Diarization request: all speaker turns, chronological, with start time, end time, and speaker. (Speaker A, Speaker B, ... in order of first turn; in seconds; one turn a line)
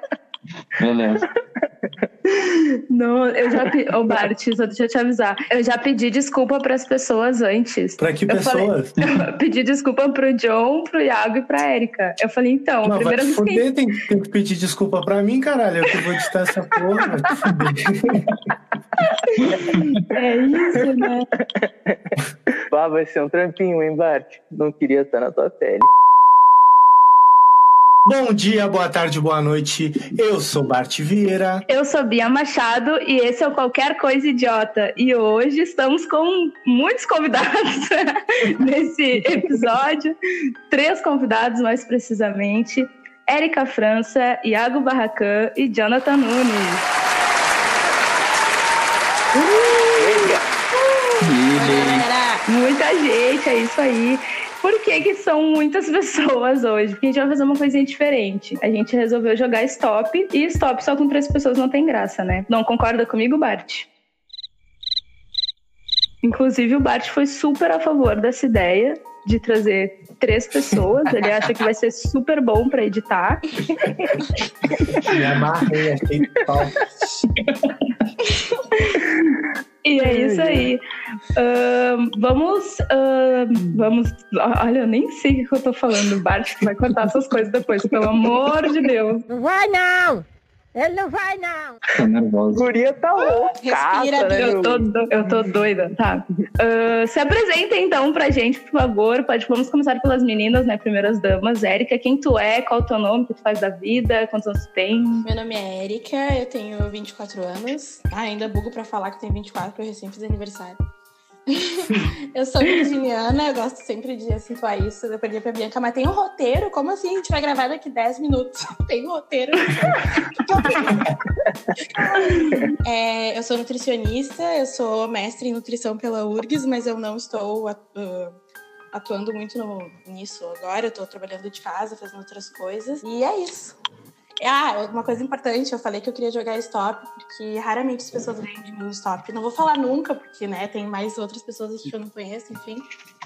Speaker A: 0.8-1.3
Speaker B: 2.4-13.7
Speaker C: 8.0-8.9
Speaker C: 12.8-18.3
Speaker B: 19.1-21.3
Speaker D: 21.4-21.9
Speaker D: 22.7-25.9
Speaker C: 28.1-31.6
Speaker B: 31.7-40.1
Speaker B: 40.7-46.9
Speaker B: 49.3-50.4
Speaker D: 49.9-50.4
Speaker A: 51.2-52.1
Speaker E: 51.5-52.5
Speaker B: 52.5-63.9
Speaker B: 66.2-73.4
Speaker C: 75.0-76.8
Speaker B: 78.8-79.2
Speaker B: 79.8-80.8
Speaker D: 80.0-80.7
Speaker B: 81.3-89.2
Speaker F: 89.3-90.2
Speaker F: 90.8-91.8
Speaker A: 91.9-92.7
Speaker D: 92.5-94.9
Speaker E: 93.2-94.7
Speaker B: 94.4-105.3
Speaker E: 105.2-110.8
Speaker E: 111.5-121.1
Speaker E: 122.0-128.3
Speaker B: 122.2-122.7
Speaker E: 128.9-133.8
Speaker E: 134.4-142.8